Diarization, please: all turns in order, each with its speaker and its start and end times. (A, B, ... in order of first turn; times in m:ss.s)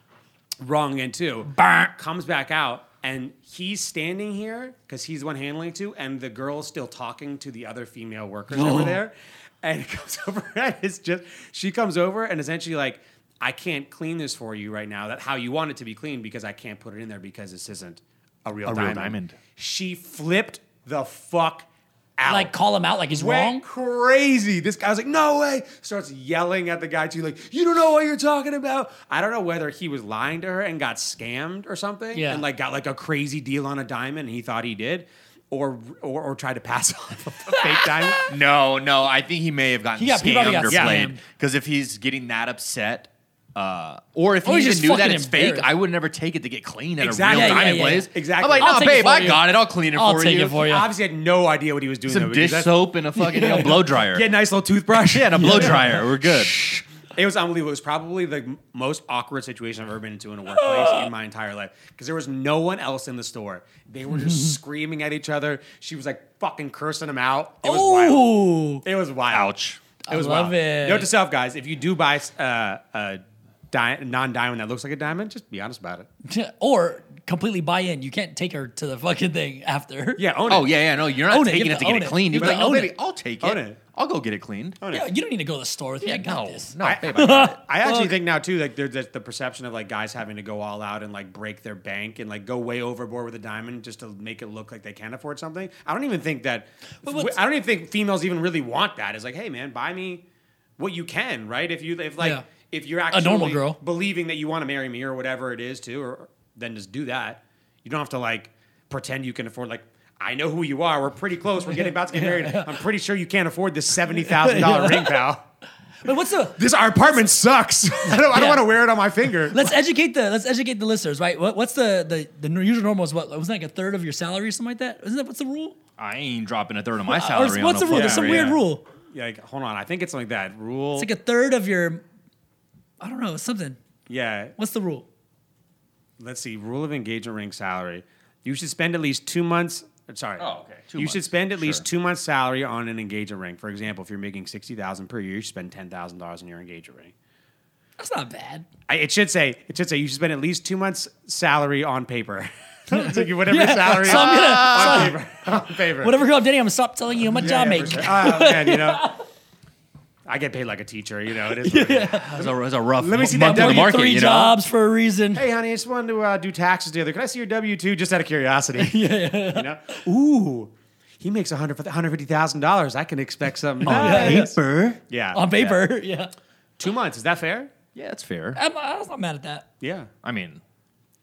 0:00.6-0:22.5 A
0:01.5-0:01.9 B
0:08.5-0:09.0 B
0:18.6-0:19.4 C
0:22.3-0:23.6 B
0:23.1-0:38.3 A
0:32.1-0:32.4 B
0:37.5-0:38.3 B
0:38.3-0:50.7 C
0:40.0-0:41.2 B
0:40.7-0:41.1 A
0:44.4-0:45.7 B
0:47.0-0:49.1 A
0:47.3-0:50.9 B
0:50.6-0:52.8 A
0:52.1-0:54.3 C
0:53.1-0:53.8 B
0:54.0-1:09.5 A
0:55.0-0:56.6 C
0:55.3-0:56.0 B
1:00.5-1:01.1 B
1:04.1-1:04.6 B
1:07.6-1:08.8 B
1:09.3-1:09.8 C
1:10.1-1:11.1 B
1:10.1-1:16.1 A
1:16.2-1:20.2 B
1:20.2-1:20.8 A
1:20.5-1:24.8 C
1:21.2-1:22.9 B
1:22.4-1:22.9 A
1:23.4-1:23.8 A
1:24.8-1:25.1 A
1:24.9-1:28.1 B
1:26.0-1:27.6 C
1:26.8-1:40.2 A
1:37.0-1:37.4 B
1:40.8-1:55.4 A
1:42.2-1:42.4 B
1:43.1-1:43.8 B
1:51.6-1:52.8 B
1:54.2-1:55.2 B
1:56.0-1:56.6 B
1:56.6-1:59.8 A
1:58.0-1:58.6 B
1:59.5-2:05.8 B
2:06.0-2:08.6 C
2:07.1-2:08.8 B
2:07.8-2:11.1 A
2:11.0-2:12.0 B
2:13.0-2:13.8 B
2:14.1-2:14.5 A
2:14.6-2:15.0 B
2:16.2-2:27.1 A
2:20.4-2:21.8 C
2:28.0-2:28.6 B
2:28.9-2:36.2 A
2:32.9-2:35.2 B
2:34.0-2:35.2 C
2:36.0-2:39.2 B
2:37.3-2:39.1 A
2:40.2-2:44.0 A
2:41.6-2:42.4 B
2:42.3-2:44.6 C
2:43.3-2:45.4 B
2:45.3-2:54.6 A
2:48.8-2:50.0 B
2:53.8-2:54.5 B
2:53.8-2:55.0 C
2:55.1-2:55.5 A
2:55.3-2:56.3 B
2:56.8-2:57.7 A
2:57.9-2:58.6 C
2:58.5-2:59.6 B
2:59.8-3:00.1 A
3:00.2-3:00.6 C